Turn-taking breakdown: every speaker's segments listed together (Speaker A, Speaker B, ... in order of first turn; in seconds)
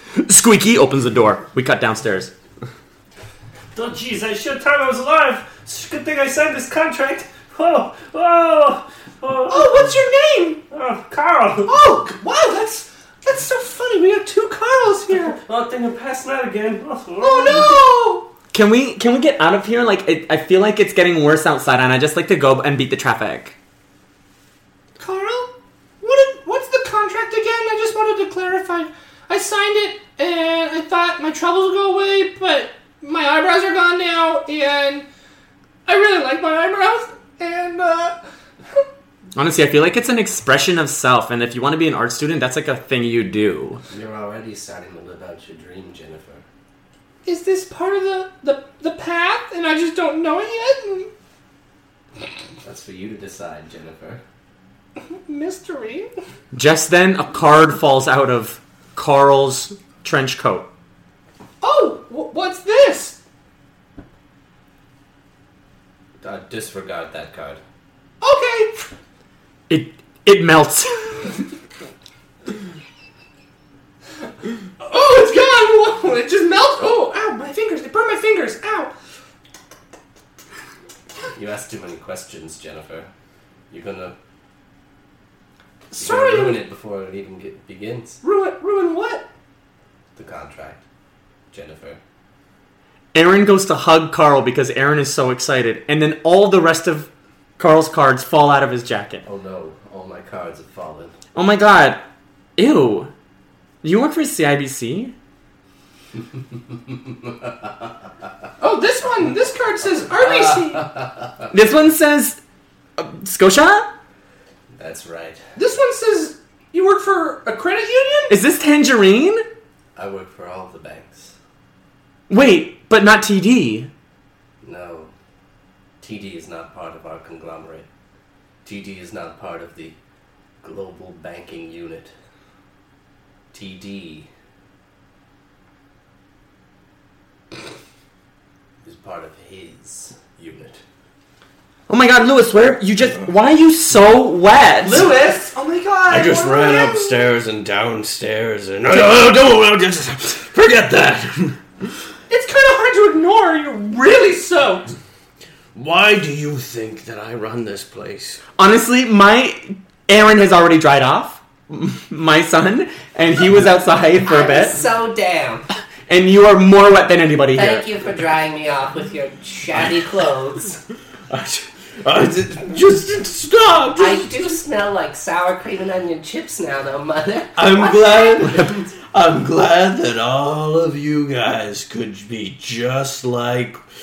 Speaker A: 0.2-2.3, 18.5-23.6, 39.3-43.8, 56.5-60.7, 69.7-71.3, 93.1-99.2, 101.3-102.0, 102.6-103.1, 103.8-105.1, 111.5-112.4, 113.0-113.9, 118.3-119.4, 122.3-123.9, 141.9-145.1, 158.6-164.8, 166.1-167.8
Speaker B: 3.7-10.0, 10.7-11.8, 15.4-17.8
Speaker C: 9.5-10.6, 11.6-15.4, 17.2-18.3, 25.0-35.0, 35.9-38.2, 47.2-51.1, 55.1-56.1, 61.6-63.2, 68.2-68.8, 74.8-78.9, 85.9-86.6, 88.2-89.2, 108.6-110.9, 115.5-118.3, 144.8-147.3, 152.3-154.9
Speaker D: 43.9-46.4, 52.6-54.2, 66.2-67.6, 81.3-83.1, 83.7-84.2, 86.0-88.2, 90.2-90.8, 91.5-92.0, 99.2-101.1, 110.0-111.3, 114.8-115.4, 120.0-121.3, 124.6-125.1, 126.0-127.9, 128.6-129.9, 130.6-132.1, 133.5-134.3, 138.8-140.8, 164.2-165.7, 167.5-170.8, 174.0-178.9
Speaker E: 146.1-151.6, 155.7-158.4, 171.3-174.5, 177.6-183.8